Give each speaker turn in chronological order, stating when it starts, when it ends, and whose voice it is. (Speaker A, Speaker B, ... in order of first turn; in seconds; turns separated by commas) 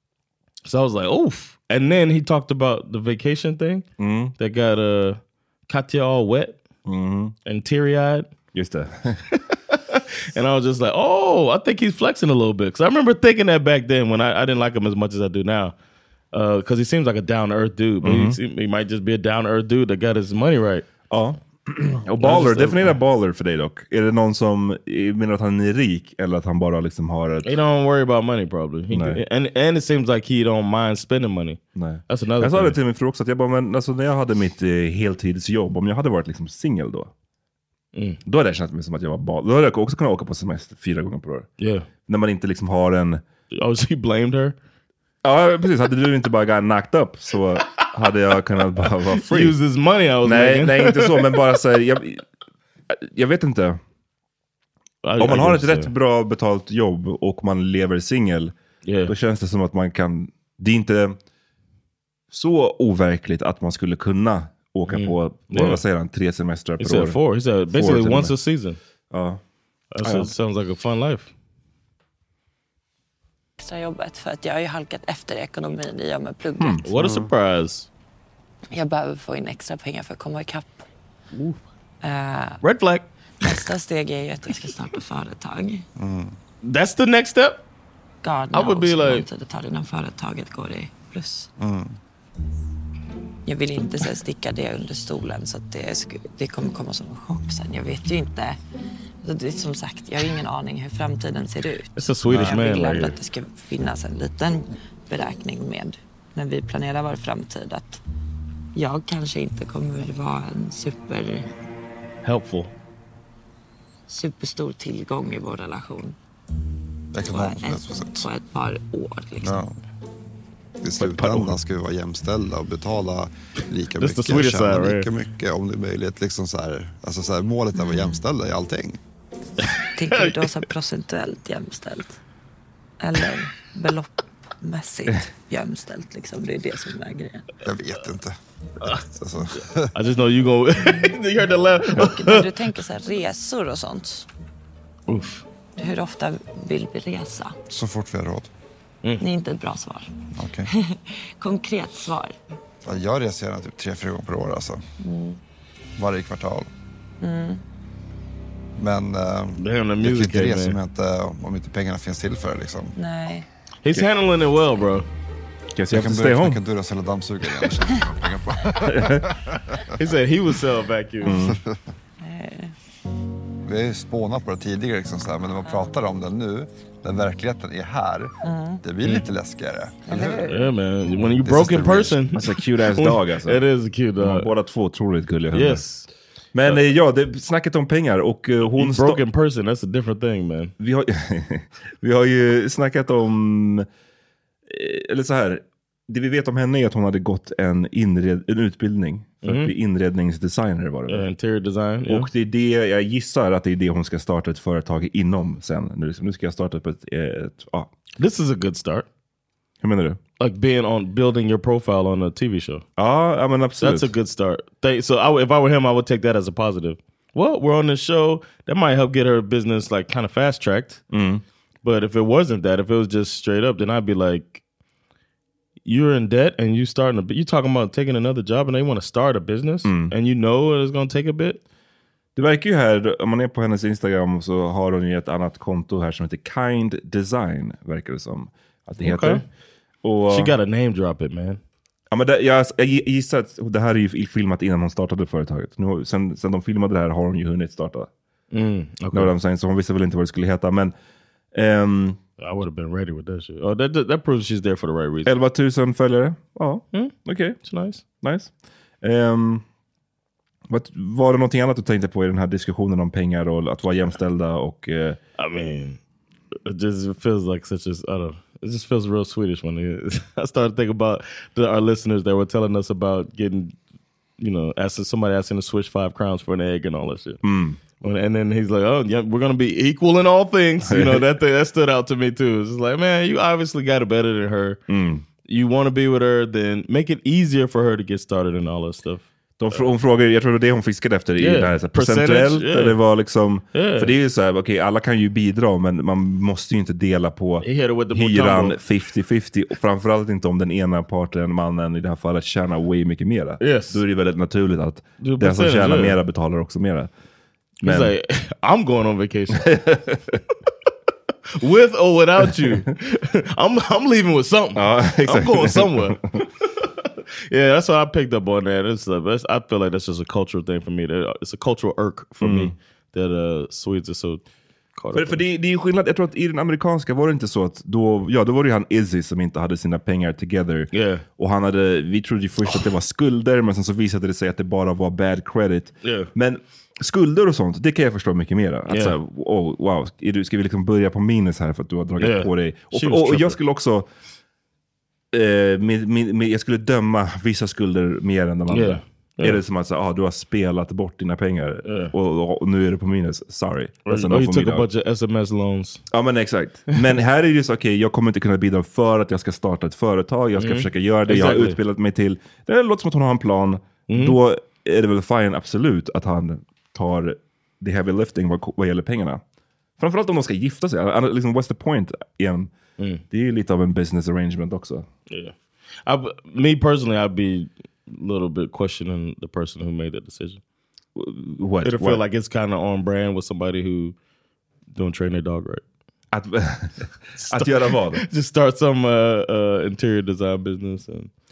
Speaker A: 0.7-3.9, Speaker B: 4.0-4.3, Speaker A: 4.4-6.6, Speaker B: 6.9-7.3, Speaker A: 7.5-8.3, Speaker B: 8.5-9.2, Speaker A: 9.3-15.8, Speaker A: 16.3-20.9, Speaker B: 18.0-18.4, Speaker B: 21.1-27.5, Speaker A: 22.2-23.0, Speaker A: 27.4-32.8, Speaker B: 28.9-29.2, Speaker B: 31.8-37.1, Speaker B: 38.2-41.5, Speaker A: 41.6-41.9, Speaker B: 42.1-43.2, Speaker A: 43.5-44.6, Speaker B: 45.2-49.6, Speaker A: 49.1-51.4, Speaker B: 50.2-52.2, Speaker B: 52.9-53.8, Speaker A: 55.0-55.9, Speaker B: 55.2-58.5, Speaker A: 58.9-59.1, Speaker B: 59.1-61.2, Speaker B: 62.3-67.2, Speaker A: 64.9-65.8, Speaker A: 66.8-68.8, Speaker B: 67.7-68.3, Speaker B: 69.1-69.4, Speaker A: 69.9-71.3, Speaker B: 70.0-70.3, Speaker C: 73.6-76.8, Speaker A: 76.8-77.9, Speaker D: 77.0-77.3, Speaker C: 78.7-80.9, Speaker A: 81.3-81.6, Speaker C: 82.0-82.6, Speaker A: 82.6-83.1, Speaker C: 83.4-85.9, Speaker D: 86.0-86.4, Speaker A: 86.6-87.6, Speaker C: 88.2-91.5, Speaker A: 88.5-89.2, Speaker D: 91.6-92.0, Speaker C: 93.5-98.6, Speaker C: 99.2-108.0, Speaker A: 102.0-103.2, Speaker C: 108.8-111.5, Speaker A: 112.2-112.7, Speaker C: 114.1-116.2, Speaker D: 117.1-118.3, Speaker C: 117.3-119.7, Speaker D: 119.4-119.7, Speaker D: 120.8-129.0, Speaker A: 121.0-121.5, Speaker A: 124.0-125.1, Speaker C: 127.7-128.2, Speaker C: 130.0-132.2, Speaker A: 130.1-130.4, Speaker C: 133.0-137.5, Speaker D: 137.6-138.3, Speaker D: 139.0-139.9, Speaker A: 139.9-142.5, Speaker C: 140.8-141.1, Speaker C: 141.9-144.3, Speaker A: 145.1-145.4, Speaker C: 145.8-147.6, Speaker D: 147.7-148.5, Speaker C: 149.2-150.2, Speaker D: 150.4-150.7, Speaker C: 150.7-152.4, Speaker D: 152.8-154.8, Speaker C: 155.0-155.4, Speaker D: 156.0-156.7, Speaker C: 157.2-157.6, Speaker D: 158.8-163.0, Speaker A: 159.6-160.8, Speaker C: 162.9-163.5, Speaker A: 163.8-165.1, Speaker B: 165.8-166.6, Speaker D: 165.9-169.9, Speaker B: 168.9-169.2, Speaker A: 170.0-171.4, Speaker B: 171.2-171.6, Speaker D: 171.3-171.8, Speaker C: 172.2-172.8, Speaker D: 173.7-180.5, Speaker C: 175.7-175.9, Speaker C: 178.4-178.8, Speaker C: 180.1-180.7, Speaker A: 180.1-184.5, Speaker B: 181.5-183.6, Speaker D: 181.6-182.0, Speaker B: 184.2-185.8, Speaker A: 185.5-186.1, Speaker B: 186.5-189.2, Speaker A: 188.7-190.7, Speaker B: 190.8-193.9, Speaker B: 194.7-201.3, Speaker A: 199.4-199.7, Speaker A: 201.1-202.3, Speaker B: 202.1-207.9, Speaker A: 208.2-209.1, Speaker B: 209.8-210.2, Speaker A: 210.4-212.8, Speaker B: 213.0-214.1, Speaker A: 213.8-221.0, Speaker B: 221.1-221.4, Speaker A: 221.8-224.6, Speaker A: 225.8-231.6, Speaker B: 229.8-230.1, Speaker B: 232.4-239.4, Speaker A: 239.0-239.4, Speaker B: 240.0-240.5, Speaker A: 240.3-241.6, Speaker B: 242.1-248.1, Speaker A: 248.5-249.3, Speaker B: 249.1-250.9, Speaker B: 251.5-252.2, Speaker A: 252.4-255.3, Speaker B: 255.3-257.6, Speaker A: 256.9-258.0, Speaker B: 258.2-258.5, Speaker B: 259.0-259.6, Speaker B: 260.7-265.2, Speaker A: 265.4-266.0, Speaker A: 266.7-273.8, Speaker A: 274.4-277.4, Speaker B: 277.4-277.8, Speaker A: 278.0-284.8, Speaker B: 280.9-281.2, Speaker B: 284.9-285.2, Speaker A: 285.5-289.9, Speaker B: 289.6-307.1, Speaker A: 291.4-293.0, Speaker A: 293.7-294.1, Speaker A: 297.6-298.8, Speaker A: 303.6-304.0, Speaker A: 305.2-306.2, Speaker B: 307.8-308.1, Speaker A: 307.8-309.7, Speaker B: 309.6-310.4, Speaker A: 311.6-316.2, Speaker B: 314.8-316.2, Speaker A: 316.8-324.4, Speaker B: 322.4-322.7, Speaker A: 325.0-325.4, Speaker B: 325.1-344.1, Speaker A: 330.9-331.2, Speaker A: 336.0-336.3, Speaker A: 338.9-339.1, Speaker A: 342.2-343.6, Speaker B: 345.3-354.9, Speaker A: 348.7-349.6, Speaker A: 351.9-352.1, Speaker A: 354.1-356.0, Speaker B: 356.1-369.4, Speaker A: 360.6-361.8, Speaker A: 364.1-364.4, Speaker B: 370.0-372.7, Speaker B: 373.3-375.1, Speaker A: 375.3-380.6, Speaker B: 381.2-382.2, Speaker A: 381.8-384.1, Speaker A: 384.9-385.8, Speaker B: 386.3-388.2, Speaker A: 387.4-391.3